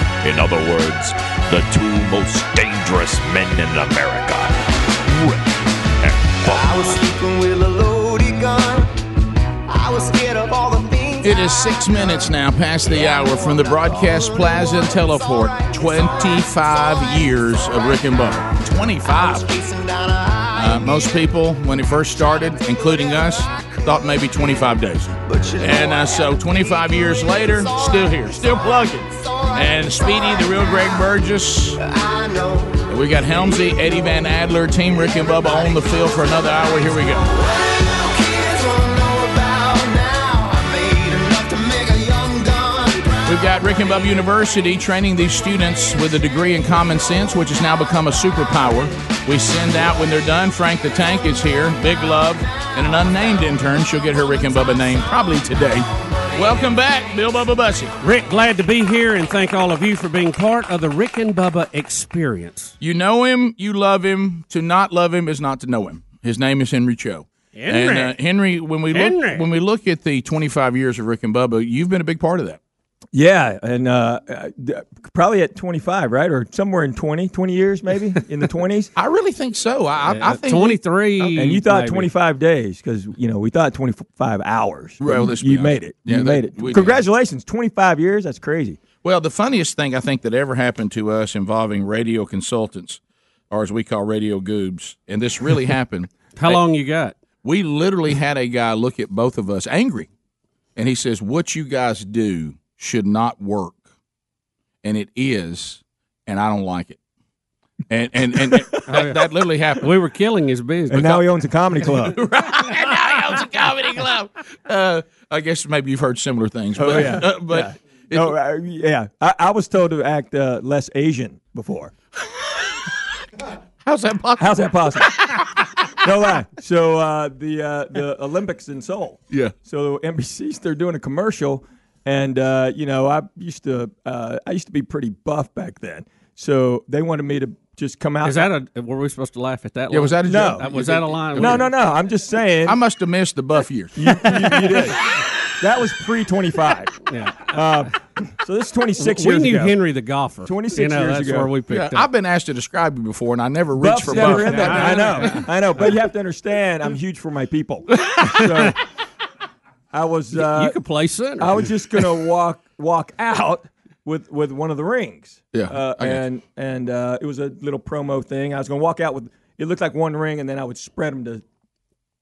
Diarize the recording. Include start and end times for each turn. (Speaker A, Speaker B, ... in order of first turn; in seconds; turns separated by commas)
Speaker A: 0.2-5.4, Speaker A: 6.0-7.1, Speaker B: 7.2-8.8, Speaker B: 9.8-11.2, Speaker C: 11.2-19.6, Speaker B: 19.6-20.4, Speaker C: 20.5-31.8, Speaker B: 31.9-32.7, Speaker C: 32.9-37.3, Speaker B: 38.2-43.1, Speaker C: 43.2-58.0, Speaker D: 58.0-62.7, Speaker C: 62.8-72.6, Speaker D: 67.5-68.1, Speaker D: 68.9-69.5, Speaker E: 73.1-78.9, Speaker C: 79.0-81.3, Speaker D: 80.1-82.1, Speaker E: 81.3-88.8, Speaker C: 85.0-87.0, Speaker C: 89.0-93.0, Speaker C: 93.5-96.6, Speaker D: 96.4-97.2, Speaker C: 97.4-100.1, Speaker C: 100.8-103.8, Speaker C: 104.8-107.0, Speaker C: 107.9-109.8, Speaker D: 108.9-109.2, Speaker D: 109.8-111.2, Speaker E: 110.9-112.2, Speaker C: 111.9-118.3, Speaker E: 116.8-121.9, Speaker C: 123.8-125.7, Speaker E: 124.4-125.1, Speaker E: 126.0-138.5, Speaker D: 138.2-141.7, Speaker C: 139.9-141.7, Speaker E: 140.2-140.7, Speaker E: 141.3-142.8, Speaker C: 142.6-144.3, Speaker E: 143.9-145.0, Speaker E: 145.6-146.9, Speaker D: 147.1-147.6, Speaker E: 147.5-149.8, Speaker D: 149.0-152.1, Speaker E: 150.4-151.5, Speaker C: 151.7-155.3, Speaker E: 153.8-158.8, Speaker D: 154.1-155.4, Speaker E: 159.9-160.8, Speaker D: 160.3-161.7, Speaker E: 161.4-171.4, Speaker C: 165.5-166.2